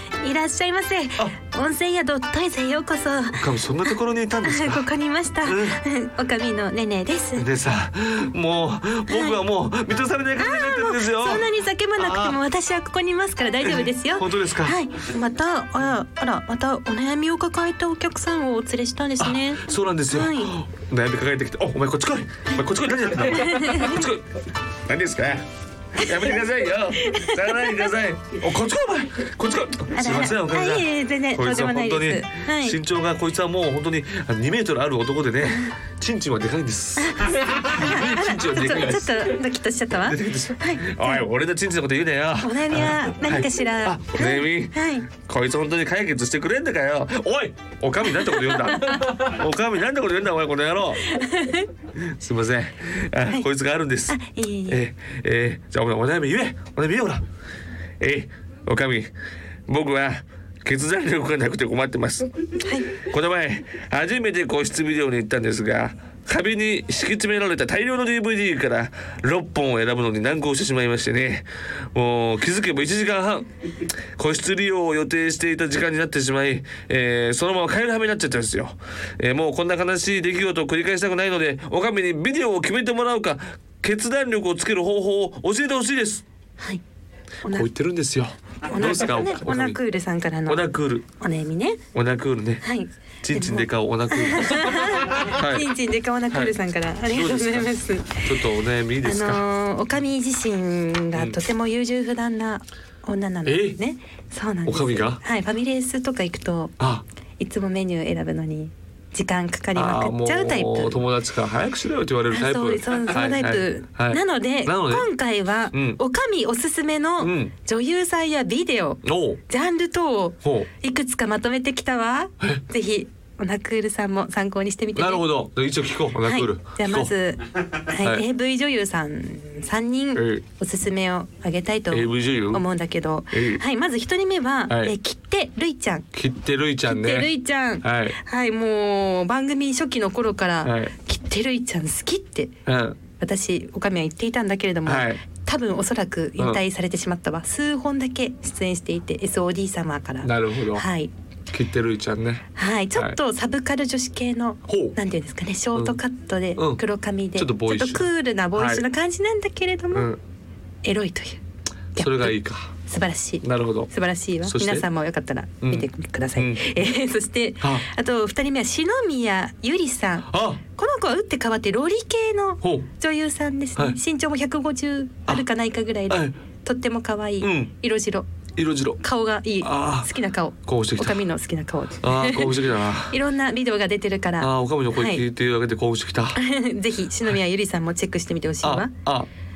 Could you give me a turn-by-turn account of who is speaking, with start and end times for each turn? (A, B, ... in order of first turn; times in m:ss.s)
0:00.2-0:07.4 A
0:03.4-0:04.9 B
0:05.4-0:05.8 B
0:07.4-0:12.4 B
0:09.1-0:09.4 A
0:10.4-0:20.5 A
0:13.6-0:14.8 B
0:19.2-0:25.4 B
0:23.3-0:24.0 A
0:26.0-0:39.4 B
0:26.0-0:26.3 A
0:27.0-0:27.9 A
0:29.9-0:32.8 A
0:37.0-0:41.2 A
0:40.0-0:51.1 B
0:42.4-0:45.1 A
0:48.1-0:49.3 A
0:51.1-0:51.7 A
0:51.9-0:54.2 B
0:54.1-0:54.8 A
0:54.7-0:57.2 B
0:58.0-0:59.1 B
0:59.7-1:02.3 B
1:02.6-1:02.9 A
1:02.9-1:26.2 B
1:27.5-1:29.8 B
1:28.6-1:31.8 A
1:30.4-1:31.0 B
1:31.9-1:32.6 B
1:32.6-1:38.3 A
1:33.2-1:35.7 B
1:36.3-1:39.4 B
1:39.0-1:46.7 A
1:43.4-1:43.8 B
1:44.6-1:45.2 B
1:46.8-1:47.0 B
1:47.4-1:51.0 A
1:49.8-1:55.1 B
1:52.3-2:05.3 A
1:55.7-1:56.0 B
1:57.2-1:57.5 B
1:59.0-1:59.4 B
2:00.4-2:00.7 B
2:04.9-2:07.1 B
2:06.2-2:16.0 A
2:08.0-2:08.2 B
2:10.1-2:10.4 B
2:11.9-2:12.6 B
2:13.3-2:13.6 B
2:14.7-2:14.9 B
2:16.1-2:17.3 B
2:16.9-2:22.5 A
2:17.8-2:18.2 B
2:20.6-2:20.9 B
2:22.6-2:23.0 B
2:23.2-2:31.1 A
2:24.9-2:25.2 B
2:30.2-2:30.9 B
2:31.5-2:33.2 B
2:32.6-2:40.1 A
2:34.7-2:35.0 B
2:36.6-2:36.8 B
2:37.3-2:38.8 B
2:39.9-2:40.2 B
2:40.8-2:41.4 A
2:42.0-2:42.3 A
2:42.0-2:42.7 B
2:42.9-2:58.3 A
2:43.4-2:43.9 B
2:44.4-2:44.9 B
2:45.6-2:46.6 B
2:47.6-2:47.9 B
2:50.3-2:50.6 B
2:52.6-2:52.9 B
2:57.4-2:57.7 B
2:58.6-2:59.0 B
2:59.0-3:05.2 A
2:59.6-3:00.1 B
3:00.6-3:01.2 B
3:02.0-3:03.2 B
3:04.4-3:06.4 B
3:06.4-3:08.9 A
3:08.6-3:09.3 B